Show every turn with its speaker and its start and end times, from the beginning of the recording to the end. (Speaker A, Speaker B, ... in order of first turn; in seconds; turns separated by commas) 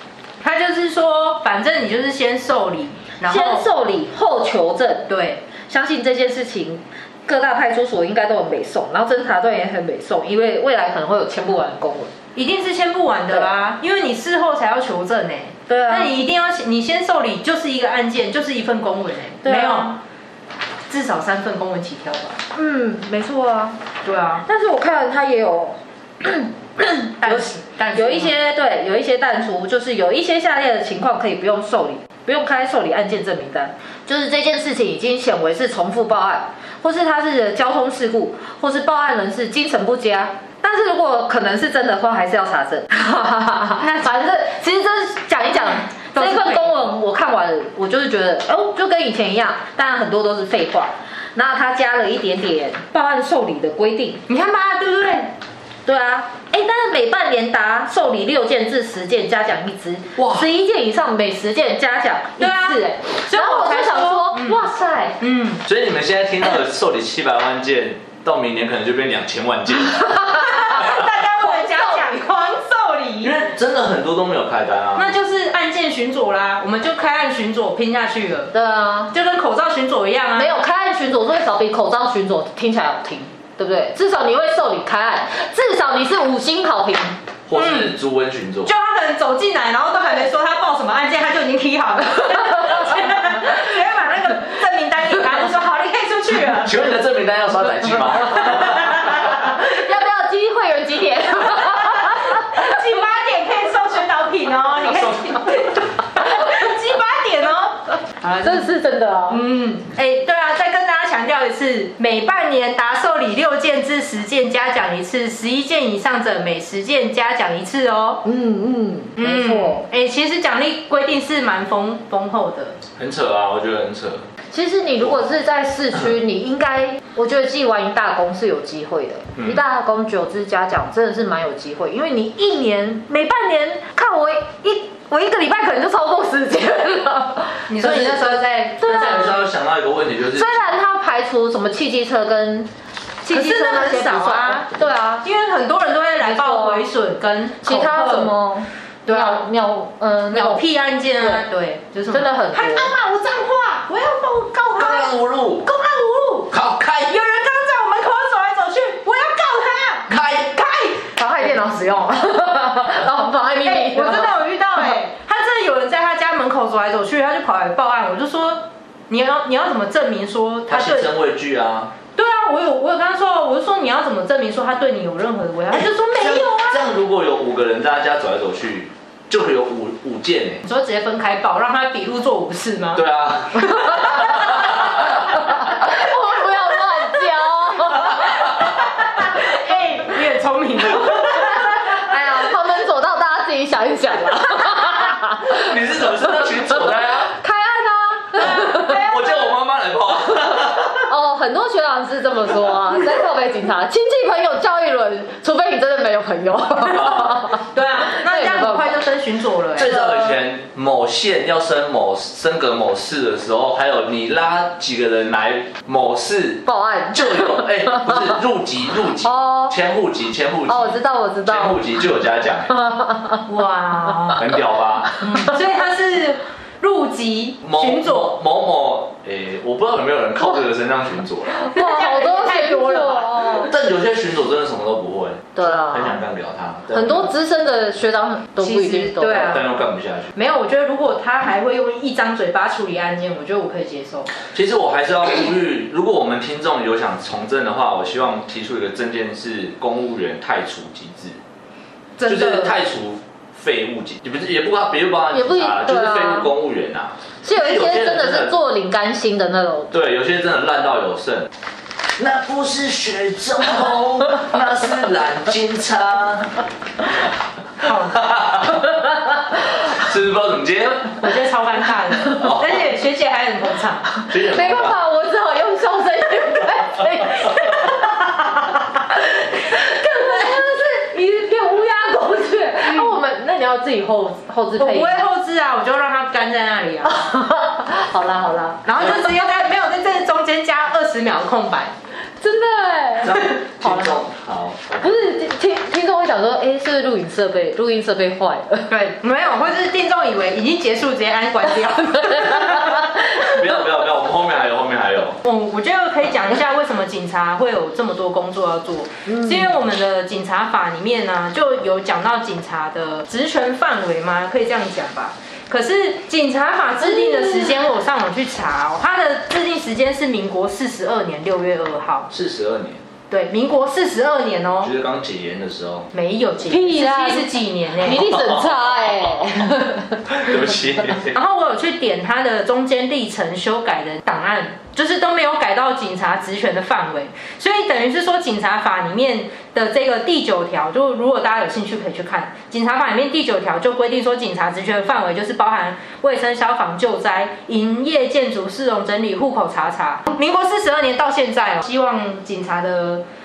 Speaker A: 0.4-3.6, Speaker B: 3.2-5.1, Speaker A: 5.1-5.4, Speaker B: 5.6-12.1, Speaker A: 12.3-20.0, Speaker B: 15.7-16.1, Speaker B: 19.4-19.9, Speaker A: 20.9-22.4, Speaker B: 22.5-23.8, Speaker A: 24.0-24.4, Speaker B: 24.4-54.2, Speaker A: 27.2-28.3, Speaker A: 46.1-46.8, Speaker A: 54.3-55.3, Speaker B: 55.9-65.2, Speaker A: 62.4-64.7, Speaker A: 65.2-65.6, Speaker C: 65.6-71.0, Speaker A: 70.3-73.3, Speaker B: 71.4-72.1, Speaker C: 73.2-75.1, Speaker A: 75.0-78.5, Speaker B: 78.5-79.1, Speaker A: 79.1-80.6, Speaker B: 80.3-87.2, Speaker C: 87.5-88.7, Speaker A: 87.5-87.9, Speaker A: 88.6-96.8, Speaker C: 96.6-99.2, Speaker A: 98.4-99.2, Speaker B: 99.3-102.6, Speaker A: 101.5-108.7, Speaker B: 108.4-109.4, Speaker A: 109.3-118.2, Speaker B: 118.2-119.8, Speaker A: 119.2-122.8, Speaker C: 123.0-124.3, Speaker B: 124.5-138.2, Speaker A: 137.7-139.5, Speaker B: 138.8-139.3, Speaker C: 138.9-140.6, Speaker B: 140.3-142.7, Speaker A: 143.2-148.3, Speaker B: 143.3-145.3, Speaker B: 146.2-146.8, Speaker B: 147.6-150.6, Speaker A: 149.1-149.4, Speaker A: 150.3-156.5, Speaker B: 151.2-151.4, Speaker B: 152.1-152.9, Speaker C: 154.8-155.7, Speaker C: 156.5-157.2, Speaker A: 157.1-160.9, Speaker C: 160.1-160.9, Speaker B: 161.2-164.9, Speaker A: 163.6-171.1, Speaker C: 170.7-171.9, Speaker A: 172.1-176.9, Speaker C: 176.1-180.6, Speaker A: 180.6-183.0, Speaker C: 182.9-185.3, Speaker A: 183.6-184.7, Speaker B: 185.0-188.4, Speaker A: 188.4-192.1, Speaker B: 191.4-195.7, Speaker C: 195.3-197.3, Speaker B: 197.2-199.0, Speaker A: 198.3-199.5, Speaker C: 198.6-201.1, Speaker B: 200.9-208.9, Speaker C: 206.8-207.3, Speaker A: 207.5-210.0, Speaker C: 209.7-222.8, Speaker B: 216.7-218.3, Speaker B: 219.2-219.7, Speaker B: 220.7-221.8, Speaker B: 222.7-223.4, Speaker A: 223.4-224.5, Speaker C: 224.3-225.3, Speaker A: 225.2-228.3, Speaker C: 227.6-231.7, Speaker B: 231.6-233.7, Speaker A: 231.7-233.6, Speaker C: 233.5-237.3, Speaker B: 235.6-236.2, Speaker B: 236.9-239.6, Speaker A: 238.6-239.7, Speaker C: 239.3-240.3, Speaker A: 240.3-244.3, Speaker C: 244.5-251.4, Speaker A: 252.2-252.8, Speaker C: 252.2-258.5, Speaker B: 255.3-256.5, Speaker B: 257.4-259.9, Speaker C: 259.9-261.5, Speaker C: 262.2-266.6, Speaker A: 267.8-268.3, Speaker C: 268.1-268.9, Speaker C: 269.8-271.3, Speaker A: 271.2-274.2, Speaker C: 272.3-272.8, Speaker C: 274.3-275.0, Speaker B: 274.4-278.1, Speaker B: 279.5-285.2, Speaker A: 282.9-283.1, Speaker A: 284.8-287.2, Speaker B: 287.0-288.9, Speaker A: 288.9-291.9, Speaker B: 292.4-294.1, Speaker C: 293.2-295.3, Speaker B: 295.0-298.9, Speaker A: 298.9-303.2, Speaker B: 302.2-303.5, Speaker C: 303.4-305.4, Speaker A: 305.4-322.3, Speaker B: 309.3-309.7, Speaker B: 317.1-317.7, Speaker C: 322.3-323.0, Speaker A: 323.3-324.9, Speaker C: 324.8-326.1, Speaker A: 326.1-328.3, Speaker B: 326.7-330.4, Speaker C: 328.1-329.4, Speaker C: 330.3-331.4, Speaker A: 331.3-353.2